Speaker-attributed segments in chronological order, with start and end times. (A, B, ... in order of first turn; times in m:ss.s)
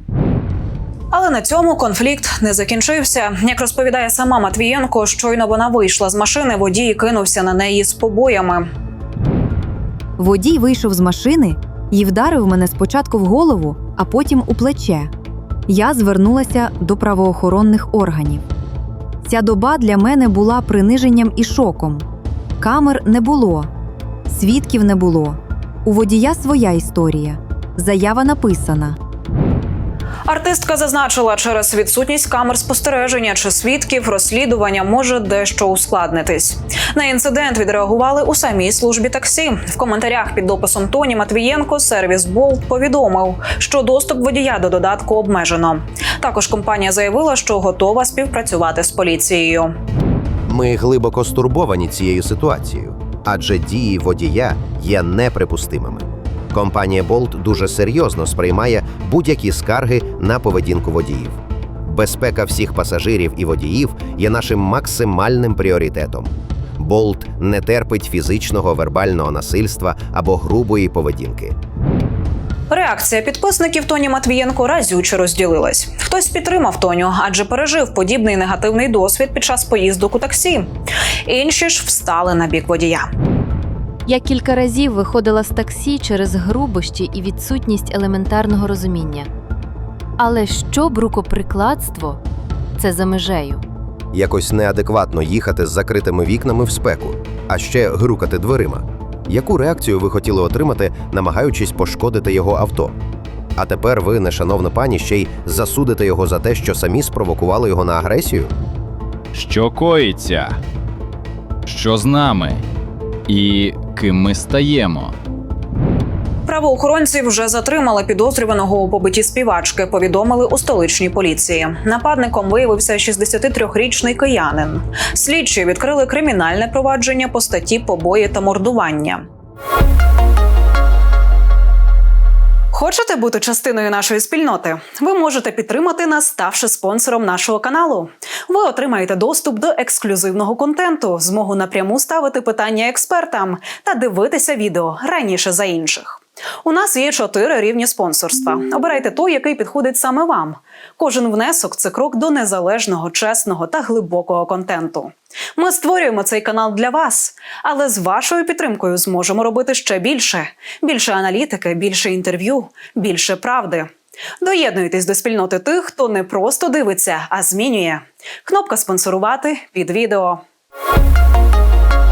0:01.1-0:08.7 A
0:10.2-0:15.1 B
0:15.7-0:18.4 B
0:19.2-0:22.1 B
0:22.6-0:23.7 B
0:24.3-0:29.0 B
0:30.3-0:49.7 A
0:50.5-1:11.5 C
1:12.7-1:20.7 A
1:21.2-1:23.1 A
1:24.1-1:29.3 D
1:30.2-1:32.2 D
1:32.8-1:33.6 D
1:34.1-1:42.9 C
1:43.6-1:48.5 C
1:49.3-1:50.6 E
1:51.7-1:52.6 E
1:53.3-1:55.1 E
1:56.5-2:09.2 A
2:12.7-2:43.9 A
2:44.4-2:50.4 A